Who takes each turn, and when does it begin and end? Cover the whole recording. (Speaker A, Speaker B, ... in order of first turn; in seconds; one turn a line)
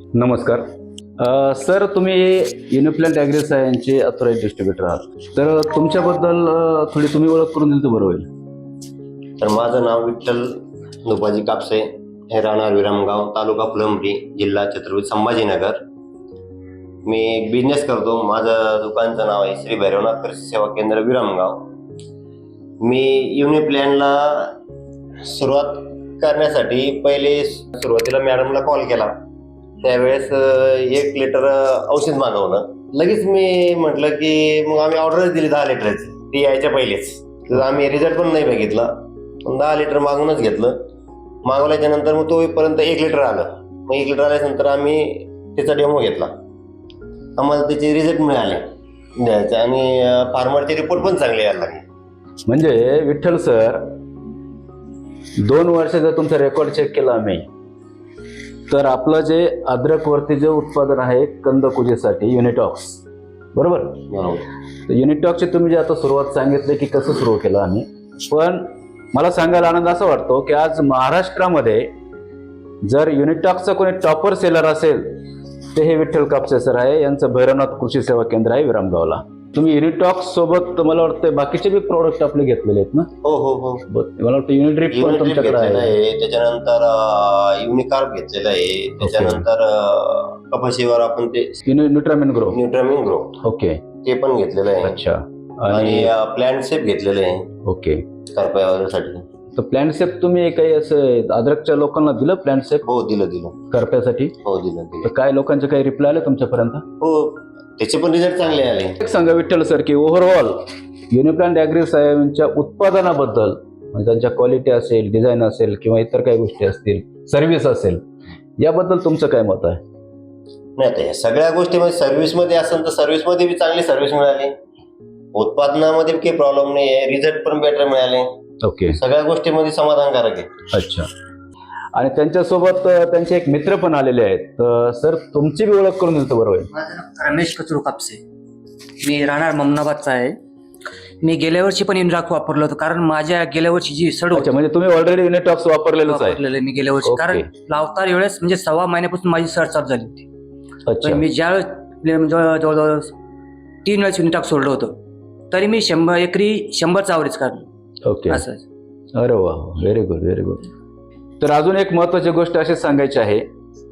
Speaker A: 0.1-0.6
Speaker A: 1.2-8.3
Speaker B: 9.4-10.5
Speaker B: 11.1-15.8
Speaker B: 17.1-21.6
Speaker B: 22.8-24.6
Speaker B: 25.2-29.1
Speaker B: 29.8-38.9
Speaker B: 39.4-40.8
Speaker B: 41.5-46.3
Speaker B: 47.4-48.6
Speaker B: 49.2-51.8
Speaker A: 52.5-53.8
Speaker A: 55.4-57.5
Speaker A: 58.7-63.0
Speaker A: 63.5-64.0
Speaker B: 64.1-64.4
Speaker A: 64.9-71.9
Speaker A: 72.8-75.2
Speaker A: 75.7-83.1
Speaker B: 83.2-83.8
Speaker A: 83.9-85.9
Speaker B: 84.9-91.5
Speaker A: 89.0-89.4
Speaker A: 91.7-92.6
Speaker B: 92.5-93.4
Speaker A: 93.4-93.8
Speaker B: 94.0-94.9
Speaker A: 94.8-96.1
Speaker B: 95.7-97.5
Speaker A: 97.7-98.0
Speaker B: 98.3-99.2
Speaker A: 99.6-102.8
Speaker B: 102.9-103.5
Speaker A: 103.7-104.4
Speaker B: 104.5-105.1
Speaker A: 105.0-106.8
Speaker B: 107.0-109.0
Speaker A: 109.0-110.6
Speaker A: 111.1-118.0
Speaker A: 118.6-119.8
Speaker B: 120.8-124.5
Speaker B: 125.3-128.3
Speaker A: 128.6-129.0
Speaker B: 129.0-130.5
Speaker A: 130.7-131.1
Speaker A: 131.9-136.7
Speaker C: 136.7-138.2
Speaker C: 139.0-140.4
Speaker C: 141.2-144.5
Speaker A: 144.3-146.4
Speaker C: 146.1-150.2
Speaker A: 147.1-147.4
Speaker A: 150.9-151.2
Speaker C: 151.0-153.1
Speaker C: 153.8-155.0
Speaker C: 155.5-157.7
Speaker A: 158.1-158.4
Speaker C: 158.3-158.6
Speaker A: 159.2-160.7
Speaker A: 161.4-163.4